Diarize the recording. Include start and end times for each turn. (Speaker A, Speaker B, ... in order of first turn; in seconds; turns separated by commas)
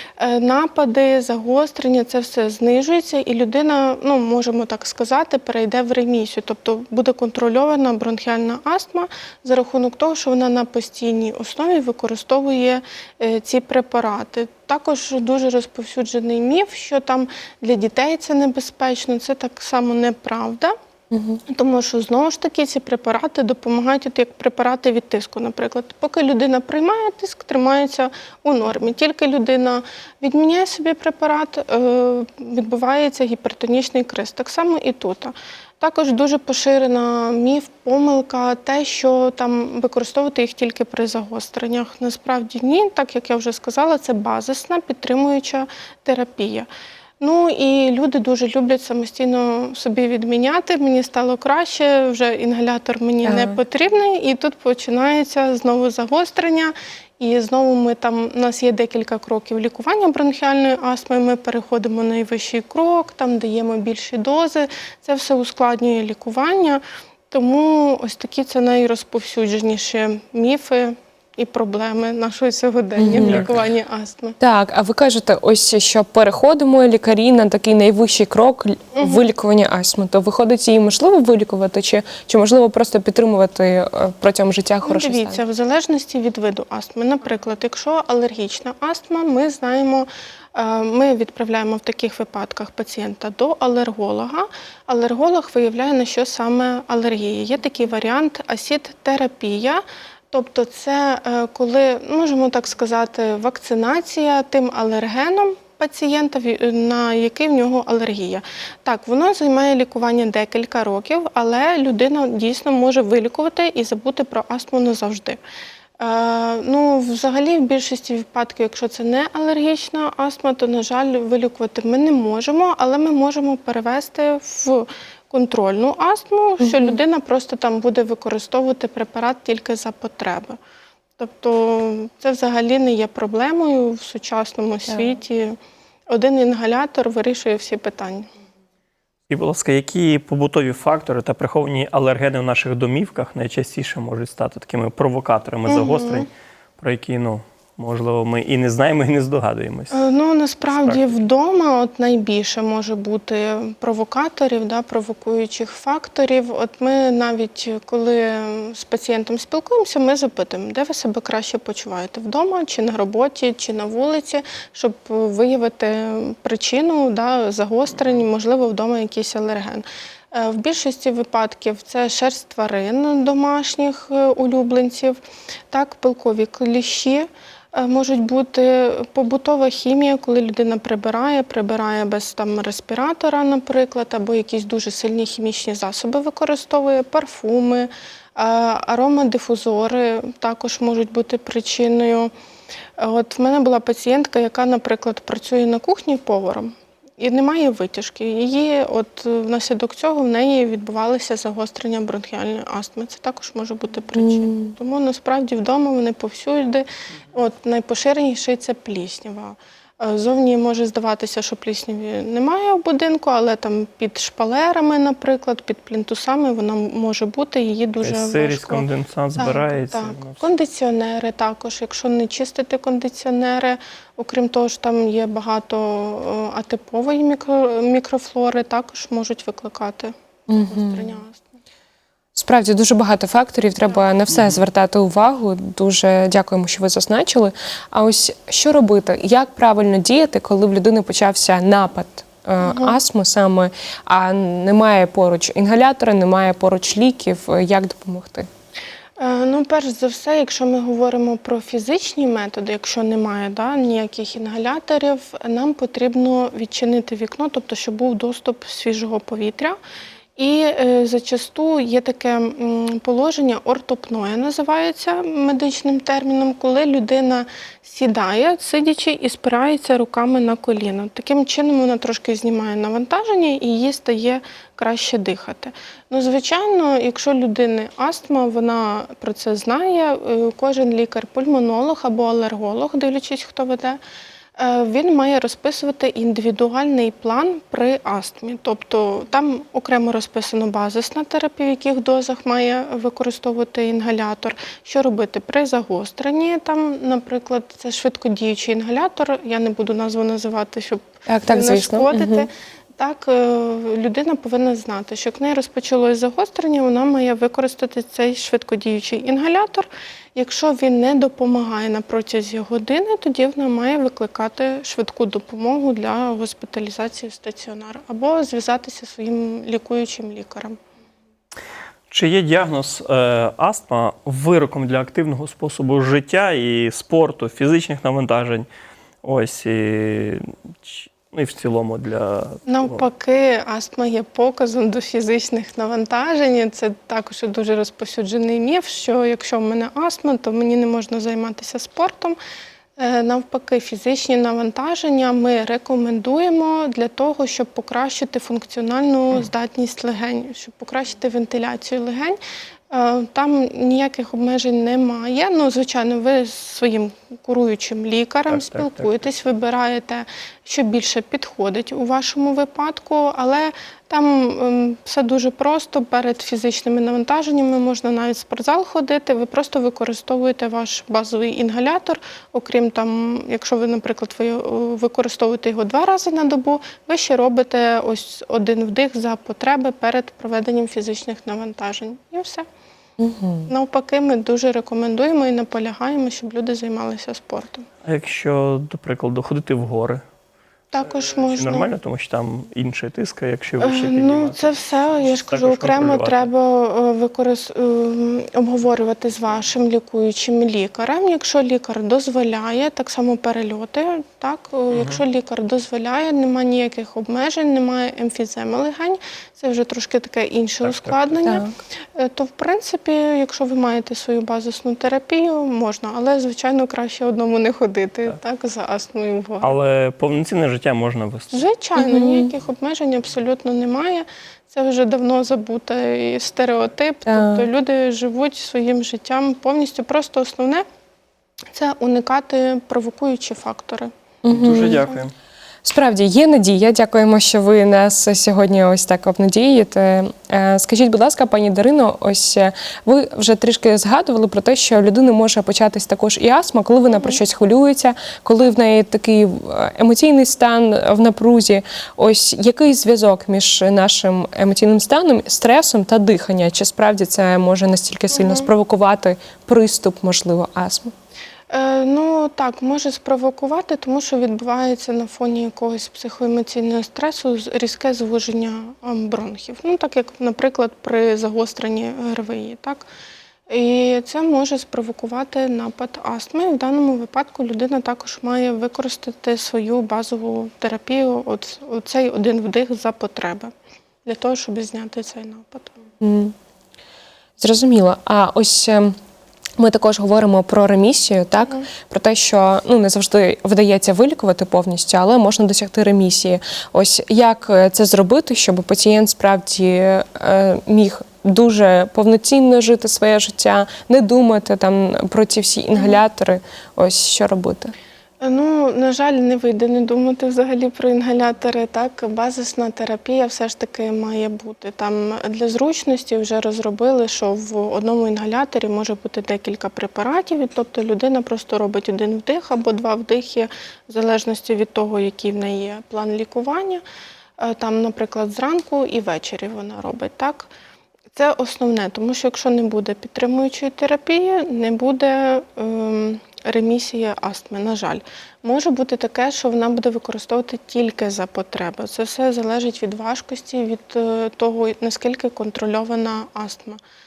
Speaker A: 0.2-20.7, Speaker B: 21.1-21.4, Speaker A: 21.5-46.7, Speaker A: 47.2-74.4, Speaker B: 53.2-53.6, Speaker B: 73.0-73.5, Speaker C: 73.2-73.6, Speaker B: 74.4-85.4, Speaker A: 79.0-79.2, Speaker A: 84.8-115.4, Speaker A: 116.0-130.6, Speaker B: 126.6-127.0, Speaker A: 131.2-135.6, Speaker A: 136.1-138.3, Speaker C: 139.3-149.9, Speaker A: 145.7-146.3, Speaker A: 149.9-175.2, Speaker C: 150.7-151.1, Speaker A: 175.7-192.3, Speaker A: 193.0-231.5, Speaker B: 204.2-204.7, Speaker C: 218.0-220.4, Speaker B: 230.5-231.2, Speaker B: 232.3-248.5, Speaker C: 234.3-234.6, Speaker A: 242.6-243.0, Speaker A: 249.2-259.8, Speaker A: 260.4-284.0, Speaker A: 284.6-320.8, Speaker B: 301.3-302.5, Speaker C: 322.1-328.7, Speaker C: 329.2-333.0, Speaker A: 332.7-342.4, Speaker A: 343.0-352.4, Speaker A: 352.9-382.6, Speaker C: 358.5-359.1, Speaker B: 383.2-383.7, Speaker A: 383.7-387.9, Speaker C: 388.0-390.2, Speaker A: 390.9-391.9, Speaker C: 391.4-396.5, Speaker A: 393.8-419.7, Speaker C: 410.8-411.6, Speaker B: 411.4-411.7, Speaker C: 419.6-421.6, Speaker A: 421.5-430.8, Speaker B: 422.0-422.5, Speaker B: 427.3-427.6, Speaker A: 431.7-434.1, Speaker B: 434.4-435.0, Speaker C: 434.5-435.3, Speaker A: 434.7-435.2, Speaker B: 435.8-461.1, Speaker A: 447.1-447.4, Speaker A: 458.3-458.7, Speaker A: 461.7-473.1, Speaker A: 473.7-483.7, Speaker A: 484.2-485.9, Speaker B: 486.2-486.5, Speaker B: 487.6-489.1, Speaker B: 489.8-507.9, Speaker A: 508.4-527.0, Speaker A: 527.6-530.7, Speaker A: 531.3-547.0